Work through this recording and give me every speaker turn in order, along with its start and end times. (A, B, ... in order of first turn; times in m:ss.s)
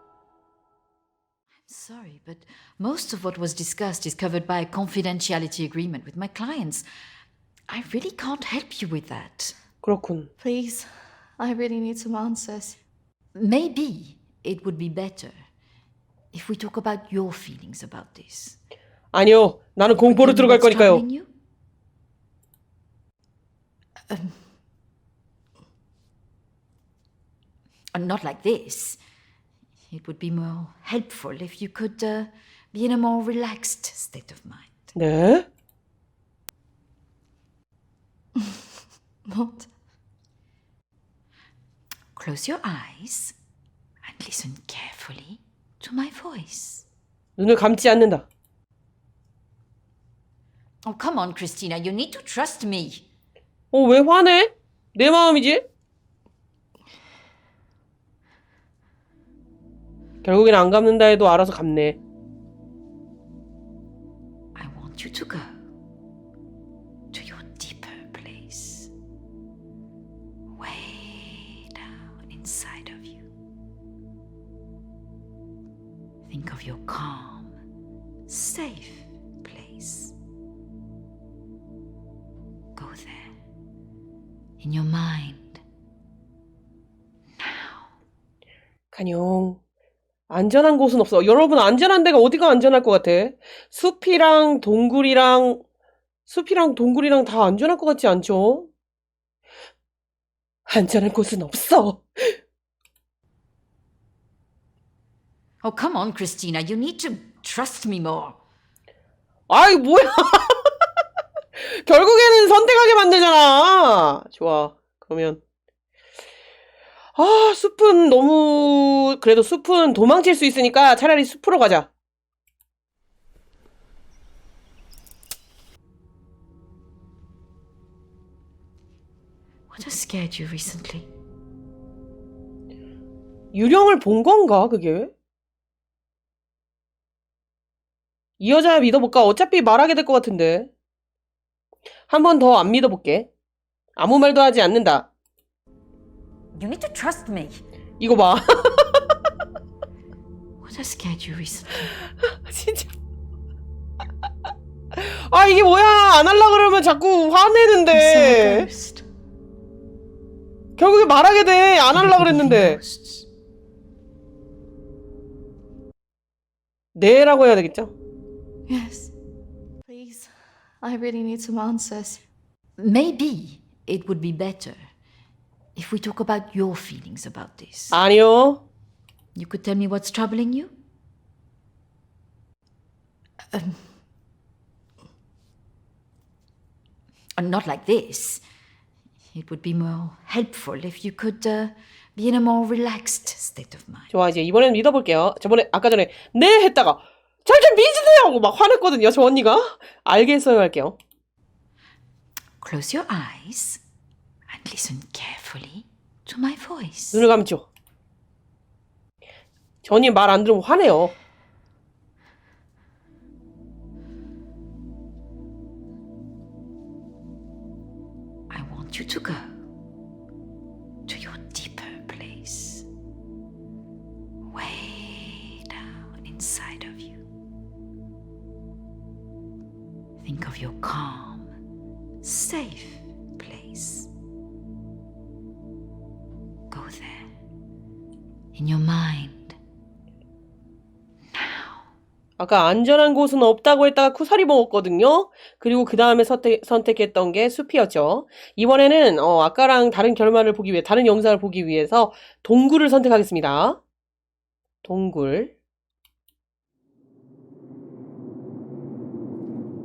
0:01.7-0:06.8 A
0:07.7-0:09.6 A
0:09.8-0:10.3 B
0:10.4-0:12.8 C
0:13.3-0:15.3 A
0:16.3-0:18.6 A
0:19.1-0:21.0 B
0:19.9-0:21.3 A
0:24.1-0:24.4 A
0:27.9-0:29.0 A
0:29.9-0:34.9 A
0:34.9-0:35.4 B
0:39.3-0:39.7 C
0:42.1-0:43.4 A
0:44.0-0:46.8 A
0:47.4-0:48.2 B
0:50.8-0:53.0 A
0:53.7-0:55.6 B
1:00.2-1:02.0 B
1:04.6-1:05.6 A
1:07.1-1:08.9 A
1:10.6-1:13.2 A
1:16.2-1:17.6 A
1:18.3-1:20.1 A
1:22.8-1:23.3 A
1:24.6-1:25.6 A
1:27.4-1:27.7 A
1:28.9-1:29.6 B
1:30.3-1:35.6 B
1:36.3-1:38.7 B
1:40.7-1:42.4 B
1:45.6-1:48.4 A
1:49.5-1:50.7 B
1:51.6-1:55.4 B
1:57.2-2:01.9 B
2:09.7-2:11.1 A
2:13.5-2:15.1 B
2:18.4-2:20.7 B
2:22.1-2:23.3 B
2:24.0-2:25.1 B
2:26.5-2:27.6 A
2:28.0-2:29.0 B
2:30.6-2:31.9 A
2:32.2-2:32.9 B
2:34.9-2:38.7 B
2:37.9-2:39.0 A
2:40.8-2:42.8 B
2:41.9-2:43.3 A
2:47.0-2:47.9 B
2:48.7-2:49.1 C
2:49.9-2:52.2 C
2:52.8-2:54.8 A
2:55.7-2:58.0 A
2:57.9-2:58.6 B
2:59.3-3:00.7 A
3:03.5-3:03.8 A
3:07.4-3:08.4 A
3:09.3-3:14.1 A
3:14.1-3:21.0 B
3:22.6-3:23.8 A
3:24.5-3:27.3 A
3:27.1-3:27.6 B
3:29.8-3:31.1 B
3:38.5-3:39.6 A
3:41.1-3:42.9 A
3:44.5-3:47.2 A
3:50.2-3:51.5 A
3:52.2-3:54.1 A
3:56.7-3:57.3 A
3:58.5-3:59.6 A
4:01.4-4:01.7 A
4:02.4-4:13.8 B
4:14.8-4:15.5 B